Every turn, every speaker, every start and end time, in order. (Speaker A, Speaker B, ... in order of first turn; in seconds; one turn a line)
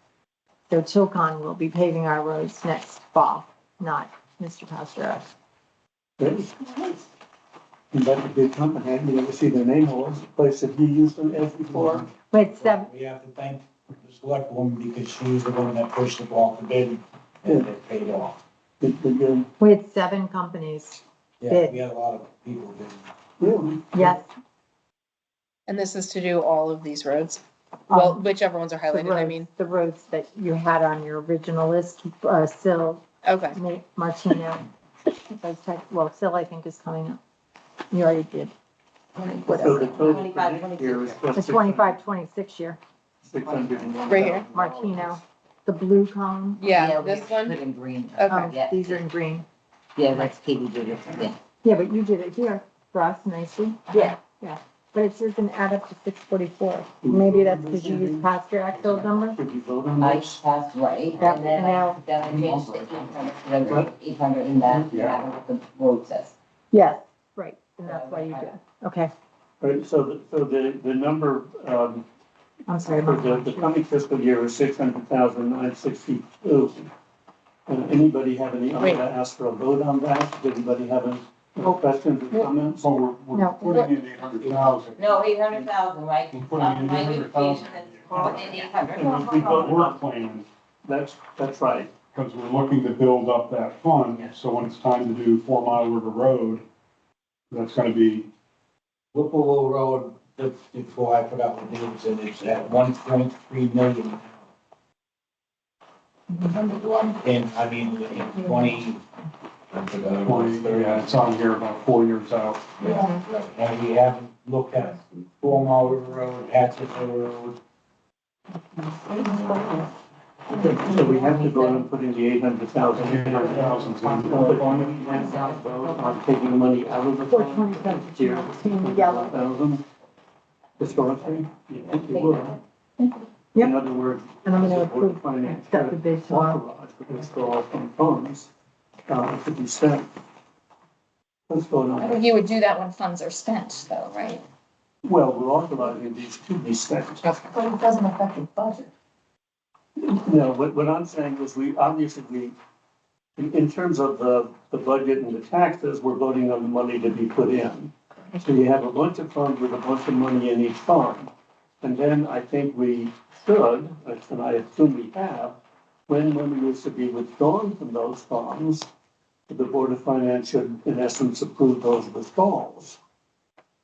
Speaker A: 0.7-5.3
Speaker B: 6.2-6.6
Speaker B: 7.9-12.1
Speaker C: 11.7-18.4
Speaker A: 12.3-12.9
Speaker B: 18.8-19.5
Speaker A: 19.6-21.8
Speaker C: 21.4-23.1
Speaker B: 23.4-23.9
Speaker A: 23.9-24.3
Speaker D: 25.7-29.5
Speaker A: 27.9-28.3
Speaker A: 28.9-34.6
Speaker D: 33.2-33.6
Speaker A: 35.3-37.2
Speaker A: 37.9-38.5
Speaker E: 39.2-41.2
Speaker A: 39.4-39.9
Speaker B: 39.5-42.0
Speaker A: 41.3-42.8
Speaker B: 43.2-45.0
Speaker E: 43.4-44.3
Speaker D: 44.1-44.5
Speaker A: 44.5-46.6
Speaker D: 46.6-47.6
Speaker E: 46.7-49.0
Speaker D: 48.2-48.5
Speaker A: 48.3-49.5
Speaker E: 49.9-51.4
Speaker A: 51.6-59.4
Speaker B: 57.0-60.4
Speaker E: 60.0-66.3
Speaker A: 61.2-62.0
Speaker B: 63.6-63.9
Speaker B: 64.6-64.9
Speaker F: 64.9-65.2
Speaker A: 66.7-69.1
Speaker E: 67.8-68.5
Speaker B: 69.6-72.0
Speaker A: 72.7-73.7
Speaker B: 73.0-76.9
Speaker B: 77.7-82.9
Speaker F: 82.7-85.0
Speaker A: 83.3-83.7
Speaker G: 83.6-83.9
Speaker C: 84.4-84.9
Speaker E: 85.0-89.8
Speaker F: 86.3-88.6
Speaker B: 88.9-90.0
Speaker F: 89.5-90.5
Speaker B: 90.8-91.9
Speaker F: 92.1-96.6
Speaker F: 97.5-98.3
Speaker C: 99.1-104.4
Speaker C: 106.4-109.0
Speaker C: 109.7-111.2
Speaker F: 110.2-112.7
Speaker C: 112.8-117.6
Speaker E: 119.1-119.5
Speaker B: 119.5-119.8
Speaker B: 120.5-129.8
Speaker E: 120.5-121.9
Speaker F: 122.9-125.0
Speaker E: 123.6-126.2
Speaker A: 127.3-129.3
Speaker B: 130.8-132.6
Speaker E: 132.1-132.5
Speaker B: 133.6-138.5
Speaker A: 134.4-136.6
Speaker B: 139.1-140.1
Speaker B: 141.5-142.3
Speaker G: 142.0-144.4
Speaker B: 145.0-147.4
Speaker G: 147.2-148.9
Speaker B: 150.0-152.5
Speaker B: 153.4-161.3
Speaker B: 161.8-165.6
Speaker B: 166.1-168.9
Speaker B: 169.5-173.0